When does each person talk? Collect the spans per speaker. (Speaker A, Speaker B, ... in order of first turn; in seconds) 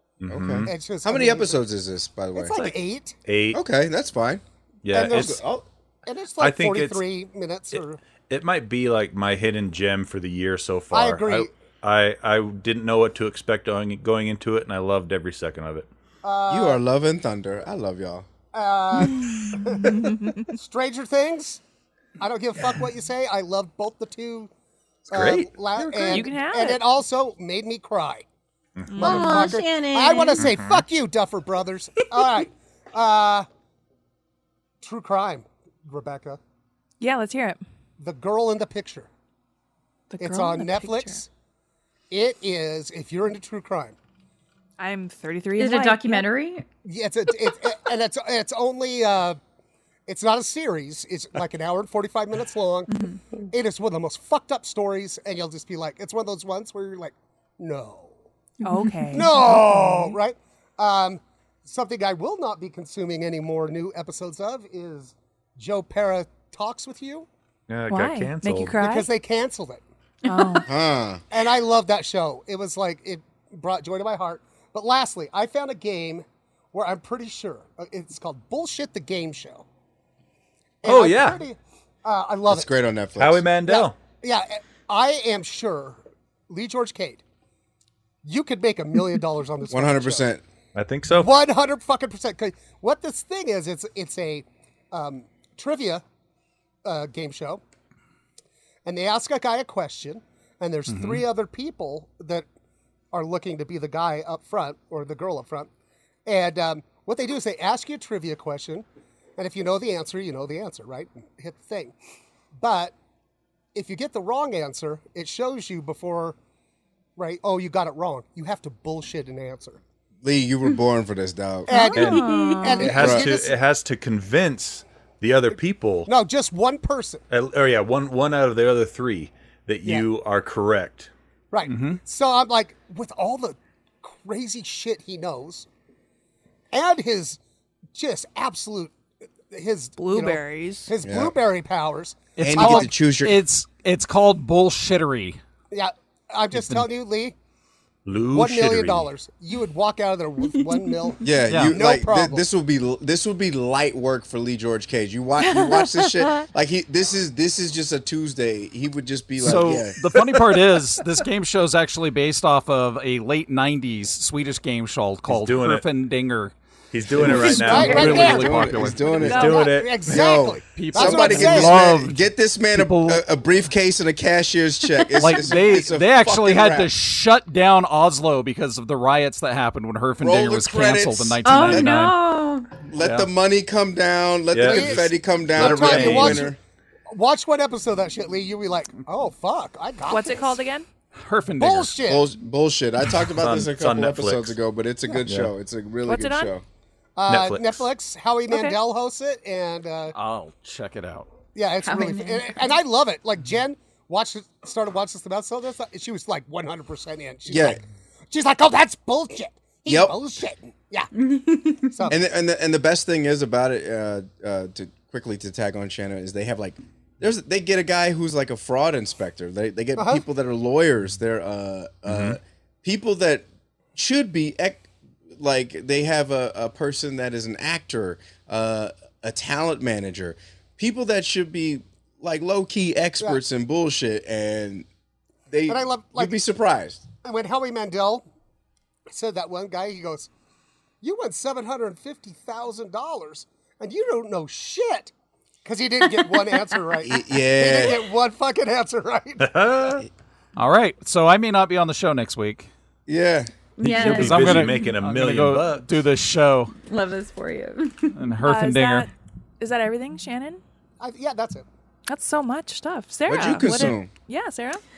Speaker A: 0.2-0.7, 3.3-3.6, 4.8-5.4, 6.4-7.0, 7.8-15.9, 25.1-25.5, 28.8-29.1, 30.4-30.8, 67.7-68.8, 80.8-81.4, 83.2-84.0, 90.8-91.3, 122.0-122.2, 122.8-126.1, 127.3-131.1, 148.1-149.1, 165.3-165.8, 166.9-168.4, 169.1-170.1, 184.5-186.5, 193.4-194.6, 195.2-195.5, 197.3-197.9, 222.1-222.4, 249.4-250.1, 253.8-255.9
Speaker B: 0.3-2.6, 3.5-4.4, 4.9-5.7, 16.5-18.3, 70.7-71.2, 82.5-83.5, 89.7-90.4, 120.2-121.7, 123.0-123.3, 141.0-141.3, 142.4-143.4, 151.2-160.0, 167.2-176.9, 180.2-182.0, 182.9-186.6, 192.1-196.6, 207.5-207.8, 209.9-210.2, 212.1-234.9, 235.5-237.1, 247.0-248.0, 253.1-253.5, 263.3-264.1
Speaker C: 0.6-1.7, 2.4-3.2, 4.9-5.4, 6.1-8.0, 10.9-11.5, 16.2-16.8, 18.5-21.6, 22.2-24.5, 25.1-28.3, 29.0-33.5, 34.8-36.4, 38.0-39.1, 40.2-41.3, 42.1-44.0, 46.8-49.4, 50.1-58.2, 59.1-67.3, 68.8-69.8, 71.3-79.7, 80.8-82.7, 83.7-87.2, 88.2-90.3, 91.1-96.0, 96.8-97.6, 98.8-102.5, 103.1-105.7, 106.3-108.8, 109.4-112.0, 112.6-113.0, 113.7-116.4, 117.2-119.8, 121.7-123.6, 125.5-127.2, 131.5-135.7, 136.7-137.4, 137.9-138.9, 139.5-142.9, 145.7-147.3, 148.3-152.5, 167.3-171.9, 184.6-186.6, 187.1-190.6, 191.6-192.3, 197.2-200.2, 201.6-211.1, 211.9-212.2, 220.0-220.2, 235.7-236.3, 237.2-238.2, 239.1-240.3, 241.0-245.1, 245.7-249.6, 261.0-261.7
Speaker D: 19.8-20.5, 25.8-26.8, 28.9-29.5, 37.0-37.6, 40.1-41.2, 44.8-46.2, 58.6-60.1, 67.9-69.1, 70.3-70.7, 121.7-122.9, 140.0-140.9, 155.4-156.5, 169.2-169.7, 190.1-190.9, 196.1-196.5, 198.5-198.8, 258.4-260.6, 262.1-264.8
Speaker E: 29.0-30.4, 45.6-46.6, 52.9-53.2, 70.3-70.6, 122.2-122.8, 150.7-151.2, 175.0-175.4, 181.4-182.7, 201.8-202.8, 211.2-212.1, 253.8-254.9, 256.9-258.2
Speaker F: 100.9-101.2, 131.7-132.0, 142.4-145.4, 151.5-151.8, 159.4-166.6, 167.1-169.6, 170.7-173.3, 175.2-182.2, 191.2-191.9, 200.1-201.3, 250.6-252.7, 254.0-256.7, 258.1-259.1